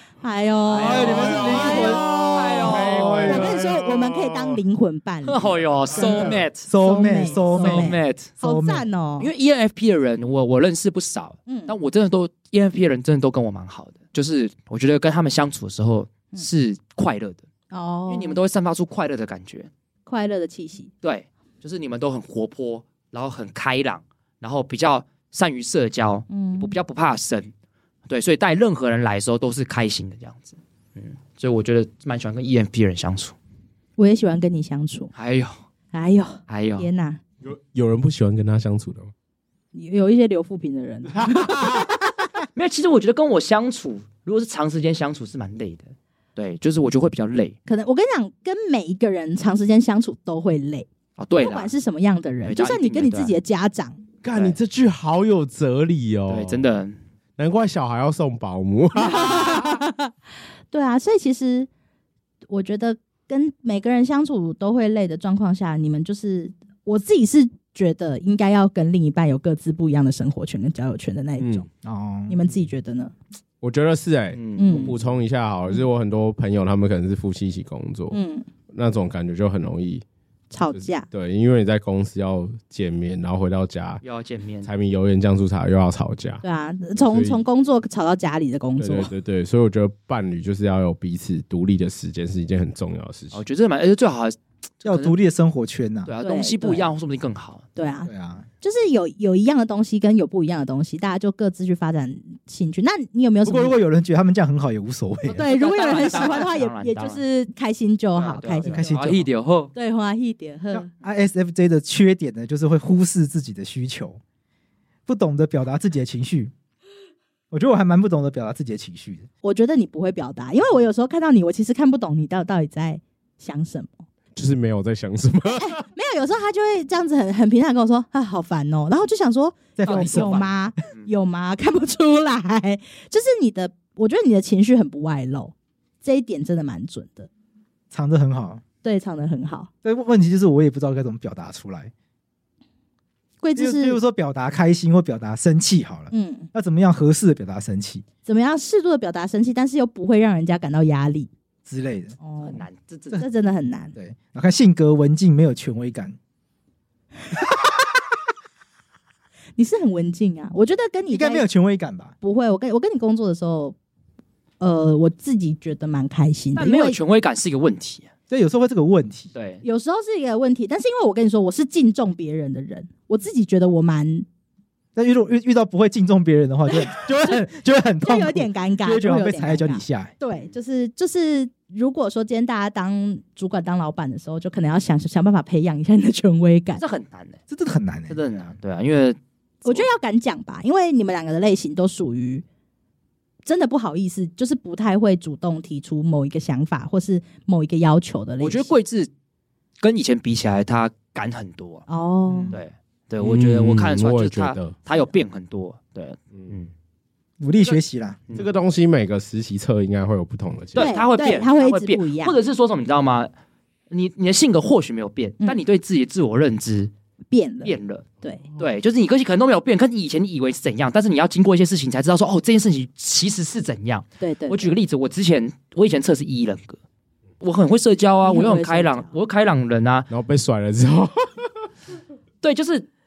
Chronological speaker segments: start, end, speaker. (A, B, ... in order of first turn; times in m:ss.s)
0:00.2-0:02.3 A
0:00.7-0:03.6 B
0:00.8-0:03.4 C
0:01.1-0:04.6 D
0:03.2-0:09.3 A
0:05.2-0:08.3 B
0:05.9-0:08.9 C
0:09.2-0:17.4 B
0:11.5-0:11.7 A
0:17.7-0:18.4 A
0:18.1-0:19.7 B
0:20.0-0:20.9 A
0:21.0-0:27.5 B
0:26.3-0:26.7 A
0:28.1-0:33.3 B
0:34.0-0:35.1 A
0:35.1-0:35.6 B
0:35.9-0:37.2 A
0:36.5-0:36.9 B
0:37.4-0:39.1 D
0:39.7-0:42.2 A
0:41.2-0:41.8 D
0:42.5-0:47.6 B
0:47.7-0:54.0 A
0:51.2-0:51.7 B
0:52.4-0:53.3 B
0:54.2-0:56.6 D
0:54.3-0:54.6 B
0:56.3-0:57.0 B
0:57.4-0:59.8 D
0:59.0-1:00.1 A
1:00.7-1:01.7 A
1:02.5-1:11.7 A
1:11.4-1:11.6 D
1:11.8-1:12.4 C
1:12.3-1:13.1 A
1:13.6-1:18.2 D
1:14.3-1:15.0 B
1:14.6-1:14.9 A
1:18.1-1:18.5 A
1:18.7-1:20.0 D
1:20.5-1:21.1 A
1:20.7-1:24.0 D
1:24.0-1:24.7 B
1:24.6-1:26.4 D
1:26.4-1:29.1 A
1:27.0-1:27.4 D
1:28.8-1:33.4 D
1:33.3-1:35.2 B
1:34.8-1:36.1 C
1:36.0-1:37.7 B
1:36.2-1:36.9 A
1:37.8-1:38.1 A
1:38.0-1:38.4 C
1:38.6-1:43.8 A
1:43.4-1:45.4 C
1:45.3-1:48.9 A
1:45.3-1:47.2 B
1:48.2-1:49.7 B
1:48.6-1:49.3 C
1:49.7-1:50.9 A
1:50.7-1:54.2 C
1:55.1-1:56.5 C
1:57.5-1:59.3 C
1:59.4-2:04.0 A
2:04.3-2:05.8 D
2:05.5-2:17.3 A
2:09.8-2:10.5 C
2:09.8-2:11.1 B
2:17.9-2:18.6 C
2:18.8-2:19.7 A
2:19.8-2:21.9 C
2:23.4-2:24.0 A
2:23.6-2:28.0 C
2:26.1-2:26.5 A
2:28.2-2:31.3 A
2:31.6-2:32.2 C
2:32.2-2:32.6 A
2:32.4-2:33.2 B
2:33.2-2:33.9 A
2:33.9-2:36.2 C
2:39.6-2:41.4 A
2:41.1-2:42.1 C
2:42.2-2:43.8 A
2:44.6-2:47.0 A
2:46.6-2:48.1 B
2:48.3-2:49.3 C
2:49.3-2:49.6 B
2:49.6-2:54.2 A
2:55.0-3:00.1 C
2:56.9-2:57.4 A
2:58.0-3:06.8 A
3:06.8-3:07.4 B
3:07.5-3:08.2 C
3:08.1-3:09.9 B
3:09.6-3:12.4 A
3:13.4-3:18.7 A
3:18.4-3:19.1 B
3:19.8-3:21.8 B
3:21.9-3:22.5 A
3:22.3-3:22.6 C
3:22.5-3:26.7 B
3:23.2-3:24.7 D
3:27.4-3:28.2 C
3:27.6-3:28.5 B
3:28.3-3:30.9 D
3:30.7-3:33.3 B
3:30.8-3:32.4 A
3:33.9-3:36.9 B
3:37.3-3:38.4 A
3:37.6-3:38.0 B
3:38.6-3:46.8 B
3:44.2-3:44.7 A
3:47.4-3:50.1 B
3:48.2-3:49.1 A
3:50.1-3:51.5 D
3:52.4-3:52.9 B